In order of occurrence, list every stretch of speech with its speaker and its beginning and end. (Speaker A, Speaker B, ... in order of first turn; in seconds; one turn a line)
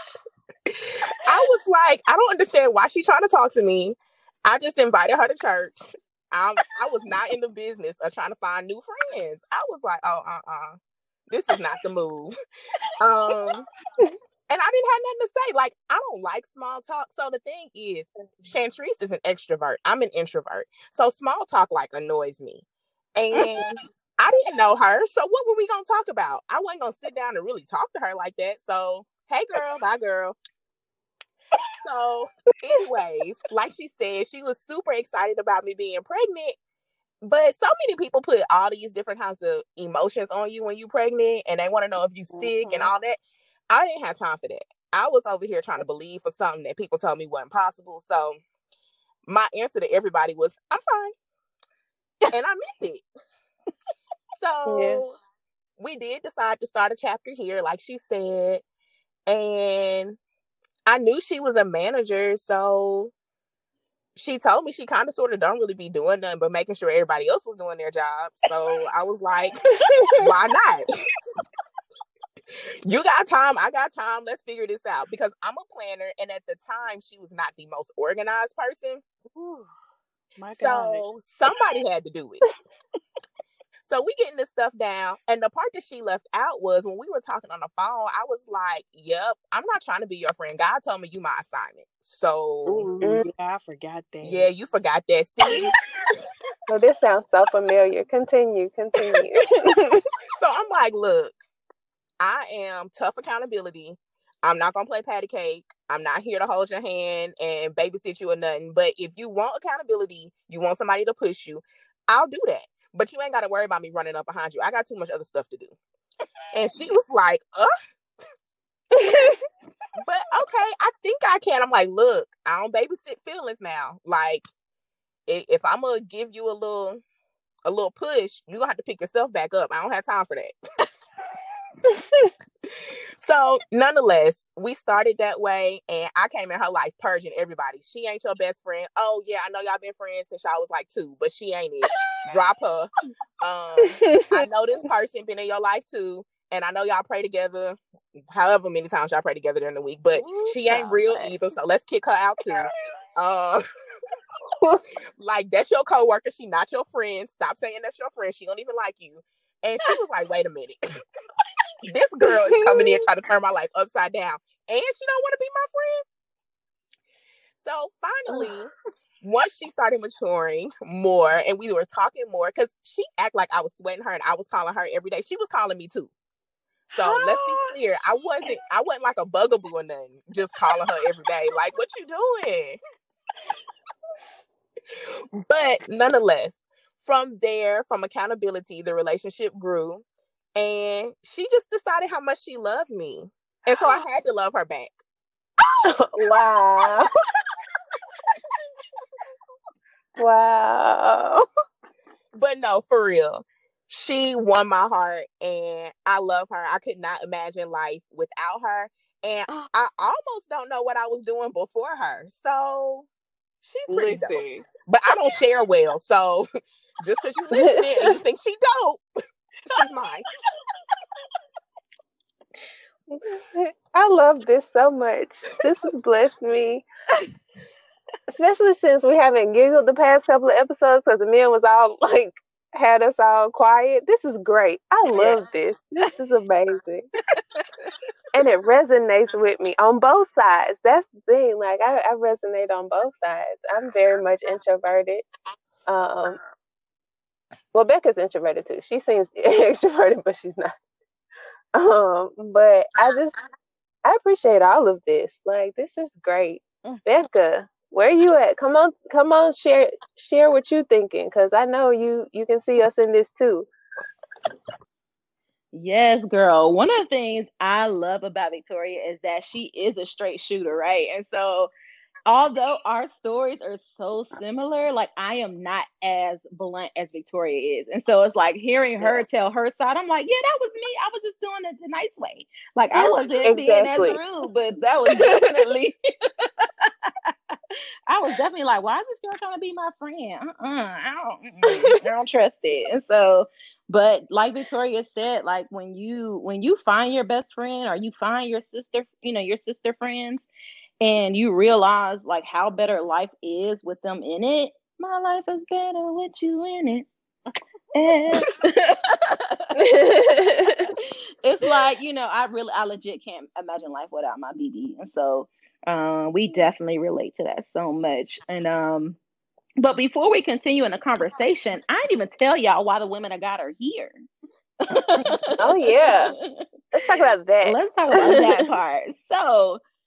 Speaker A: 1.2-10.8
Speaker A: 11.3-12.3
Speaker A: 13.0-13.6
Speaker A: 14.5-22.6
Speaker A: 23.1-30.4
Speaker A: 31.8-36.6
Speaker A: 37.2-43.2
Speaker B: 42.3-42.9
Speaker A: 43.7-48.4
Speaker A: 49.3-51.1
Speaker A: 52.3-53.0
Speaker A: 54.4-55.1
Speaker C: 54.7-55.0
Speaker A: 55.8-58.6
Speaker A: 59.3-60.2
Speaker A: 60.9-63.1
Speaker A: 64.2-69.5
Speaker C: 69.8-70.2
Speaker A: 70.2-70.8
Speaker A: 72.8-79.0
Speaker B: 79.3-79.7
Speaker B: 80.4-81.0
Speaker A: 80.5-82.4
Speaker A: 83.8-92.9
Speaker B: 92.7-94.5
Speaker A: 94.2-95.7
Speaker C: 96.7-100.0
Speaker A: 100.3-101.4
Speaker A: 102.2-115.7
Speaker A: 116.5-117.7
Speaker C: 118.9-119.4
Speaker A: 120.0-124.5
Speaker A: 125.3-127.0
Speaker A: 127.6-130.5
Speaker C: 131.8-132.3
Speaker A: 133.2-142.9
Speaker A: 143.4-147.8
Speaker C: 143.8-144.4
Speaker A: 148.3-153.6
Speaker C: 150.3-150.9
Speaker A: 155.2-160.8
Speaker A: 161.8-166.0
Speaker C: 162.3-163.0
Speaker A: 167.6-176.1
Speaker B: 176.9-177.8
Speaker A: 176.9-182.8
Speaker A: 185.4-190.0
Speaker A: 190.6-194.9
Speaker C: 195.8-197.1
Speaker C: 200.2-201.4
Speaker A: 202.3-213.1
Speaker A: 213.6-216.5
Speaker B: 213.9-214.7
Speaker A: 217.0-219.0
Speaker C: 217.5-218.1
Speaker A: 219.7-220.2
Speaker C: 223.1-226.8
Speaker C: 228.3-237.1
Speaker C: 238.3-245.2
Speaker C: 245.9-246.4
Speaker C: 247.7-250.7
Speaker C: 251.7-253.4
Speaker C: 254.0-263.7
Speaker D: 265.7-271.7
Speaker D: 272.2-287.3
Speaker C: 282.9-284.2
Speaker C: 285.1-285.5
Speaker D: 288.1-300.4
Speaker D: 301.0-307.1
Speaker D: 307.9-319.2
Speaker C: 309.8-310.9
Speaker D: 319.8-324.1
Speaker D: 324.9-329.8
Speaker C: 325.6-326.4
Speaker C: 326.9-328.6